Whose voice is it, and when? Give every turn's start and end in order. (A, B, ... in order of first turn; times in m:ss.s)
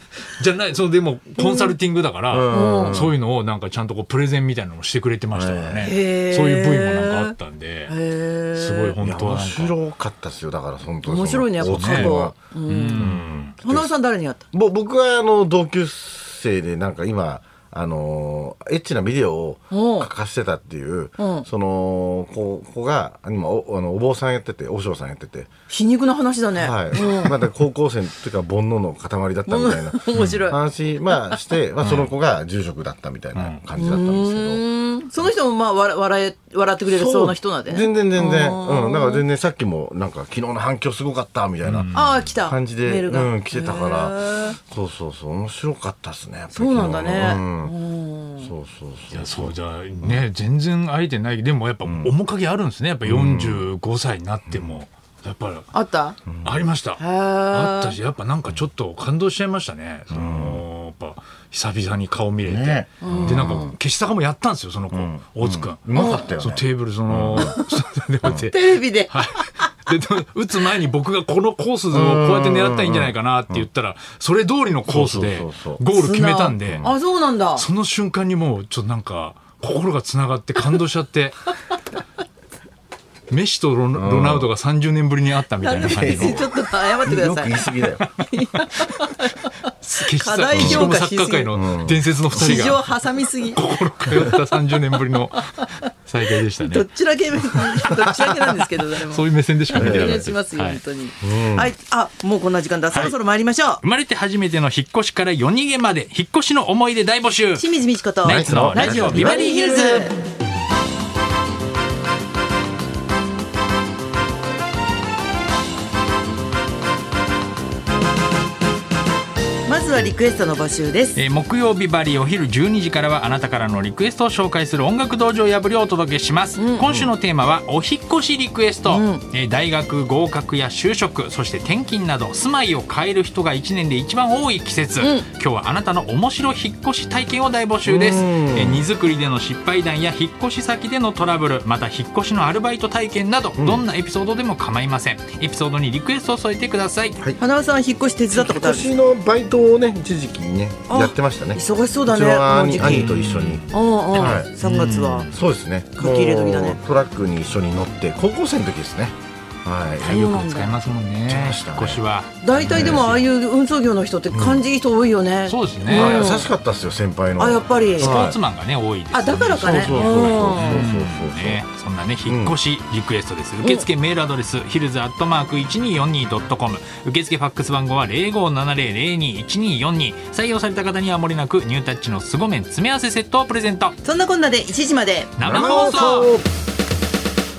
0:00.4-0:08.0 A
0:01.4-0:01.7 B
0:02.3-0:03.2 C
0:02.5-0:03.0 B
0:05.3-0:05.9 C
0:05.8-0:07.3 B
0:07.9-0:09.0 B
0:08.5-0:09.8 A
0:09.0-0:12.4 C
0:11.0-0:14.4 B
0:11.6-0:12.1 A
0:12.7-0:13.6 A
0:12.9-0:13.9 C
0:14.5-0:25.5 C
0:19.7-0:20.1 B
0:21.2-0:21.5 B
0:25.7-0:27.4 B
0:26.6-0:34.6 C
0:29.5-0:30.6 B
0:31.1-0:31.4 B
0:31.8-0:32.1 A
0:33.3-0:33.6 A
0:33.8-0:39.2 B
0:36.9-0:47.7 C
0:41.6-0:42.2 A
0:41.9-0:44.6 B
0:46.5-0:48.5 B
0:48.4-0:50.2 C
0:49.1-0:55.7 A
0:51.8-0:52.1 C
0:53.0-0:53.7 C
0:54.5-0:54.8 C
0:55.7-0:56.2 B
0:56.3-0:56.6 C
0:56.4-1:16.9 A
0:57.0-0:58.0 B
1:00.1-1:00.6 C
1:02.4-1:03.7 C
1:03.0-1:03.8 B
1:04.9-1:07.6 C
1:06.0-1:06.3 B
1:07.4-1:07.7 B
1:08.3-1:09.7 B
1:11.9-1:13.7 C
1:14.9-1:15.8 C
1:15.9-1:17.6 B
1:16.6-1:17.0 C
1:17.6-1:21.5 A
1:23.3-1:26.5 A
1:23.9-1:24.5 C
1:25.6-1:31.5 B
1:25.8-1:26.5 C
1:27.0-1:28.0 C
1:28.8-1:29.1 A
1:29.8-1:32.9 A
1:30.6-1:30.9 C
1:31.5-1:32.6 C
1:32.3-1:34.6 B
1:33.5-1:40.8 A
1:36.6-1:43.8 B
1:39.8-1:40.2 C
1:41.2-1:41.7 C
1:43.8-1:47.7 A
1:47.6-1:50.2 B
1:48.2-1:49.4 A
1:48.3-1:50.1 C
1:59.7-2:01.2 B
2:01.2-2:27.2 A
2:06.6-2:06.9 B
2:06.8-2:07.1 C
2:08.9-2:09.2 B
2:15.0-2:15.3 B
2:17.8-2:18.8 C
2:23.6-2:23.8 C
2:27.4-2:28.9 B
2:28.3-2:33.6 C
2:30.9-2:33.1 B
2:32.7-2:35.4 A
2:33.7-2:35.3 B
2:34.2-2:34.6 C
2:35.3-2:40.2 C
2:36.0-2:36.8 B
2:40.0-2:40.8 B
2:40.0-2:43.2 A
2:41.3-2:42.0 C
2:42.4-2:46.5 B
2:42.6-2:43.0 C
2:44.3-2:44.6 C
2:45.5-2:46.4 A
2:45.9-2:48.4 C
2:47.4-2:48.3 B
2:48.0-3:04.0 A
2:49.1-2:50.9 B
2:49.6-2:51.6 C
2:52.3-2:52.6 C
2:53.6-2:53.8 B
3:04.0-3:05.4 B
3:05.4-3:06.4 A
3:05.4-3:06.5 C